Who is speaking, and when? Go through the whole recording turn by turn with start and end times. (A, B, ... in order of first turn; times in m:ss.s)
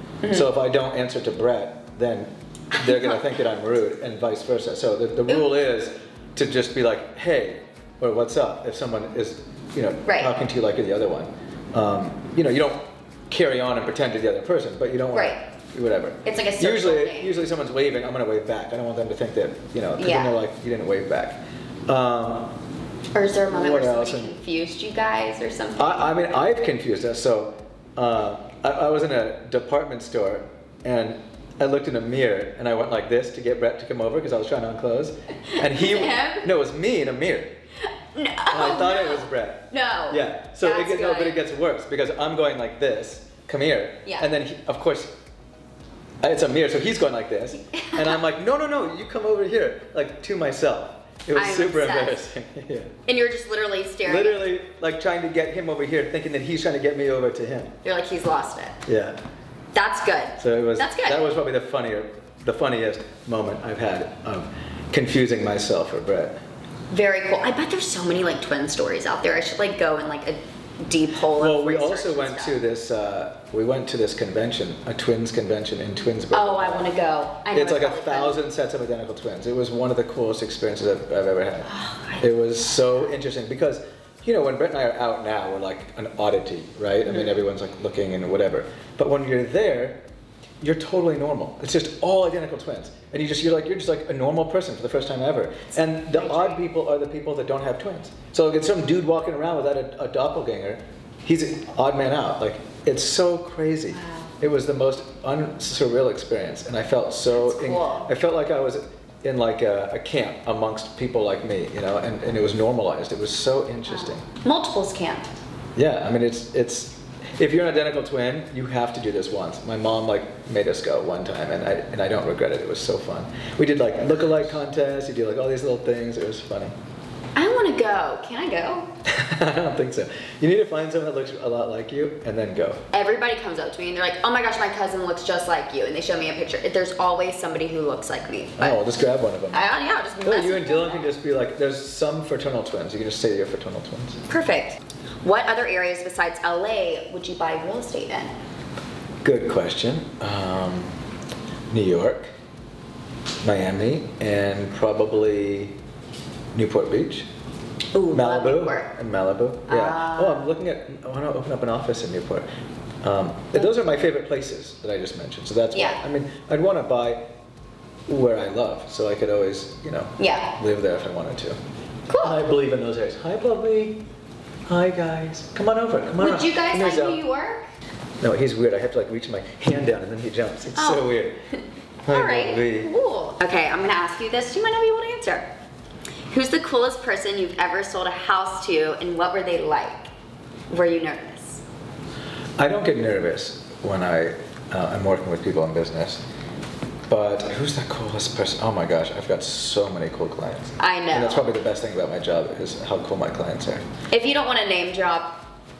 0:00.2-0:00.5 A
0:00.3-0:22.5 B
0:02.8-0:03.2 A
0:10.0-0:10.3 A
0:15.1-0:15.4 A
0:16.2-0:17.3 A
0:20.0-0:20.4 A
0:23.1-0:26.1 A
0:23.5-0:24.3 B
0:25.8-0:37.6 B
0:35.5-0:36.4 A
0:38.1-0:41.4 A
0:38.5-0:45.1 B
0:46.2-0:52.9 B
0:47.7-0:48.2 A
0:51.3-0:52.2 A
0:53.0-0:54.5 A
0:54.0-0:57.7 B
0:57.8-0:58.8 A
0:58.9-0:59.2 B
0:59.7-1:01.2 A
1:00.4-1:06.4 B
1:06.9-1:12.6 A
1:11.3-1:16.9 B
1:16.3-1:18.4 A
1:17.5-1:30.0 B
1:21.7-1:22.3 A
1:27.0-1:27.3 A
1:30.6-1:54.2 B
1:36.1-1:36.6 A
1:43.9-1:44.3 A
1:47.3-1:48.1 A
1:53.9-1:55.3 A
1:55.8-2:06.7 B
2:07.4-2:08.9 A
2:09.0-2:12.8 B
2:12.9-2:18.8 A
2:18.6-2:19.7 B
2:19.5-2:21.0 A
2:20.2-2:24.2 B
2:24.3-2:28.3 A
2:29.2-2:30.9 B
2:31.7-2:32.3 B
2:33.4-2:35.8 B
2:36.5-2:37.3 B
2:37.9-2:38.9 A
2:38.1-2:42.4 B
2:39.7-2:40.5 A
2:43.0-2:47.2 B
2:45.7-2:46.0 A
2:48.1-2:51.6 B
2:50.2-2:50.5 A
2:52.1-2:52.4 A
2:52.2-2:54.0 B
2:54.7-2:57.2 B
2:56.2-2:57.7 A
2:58.2-3:01.4 B
3:00.8-3:05.5 A
3:02.0-3:02.9 B
3:06.3-3:10.1 A
3:10.7-3:11.6 A
3:12.6-3:16.2 B
3:17.1-3:23.8 B
3:20.8-3:21.5 A
3:24.1-3:25.4 A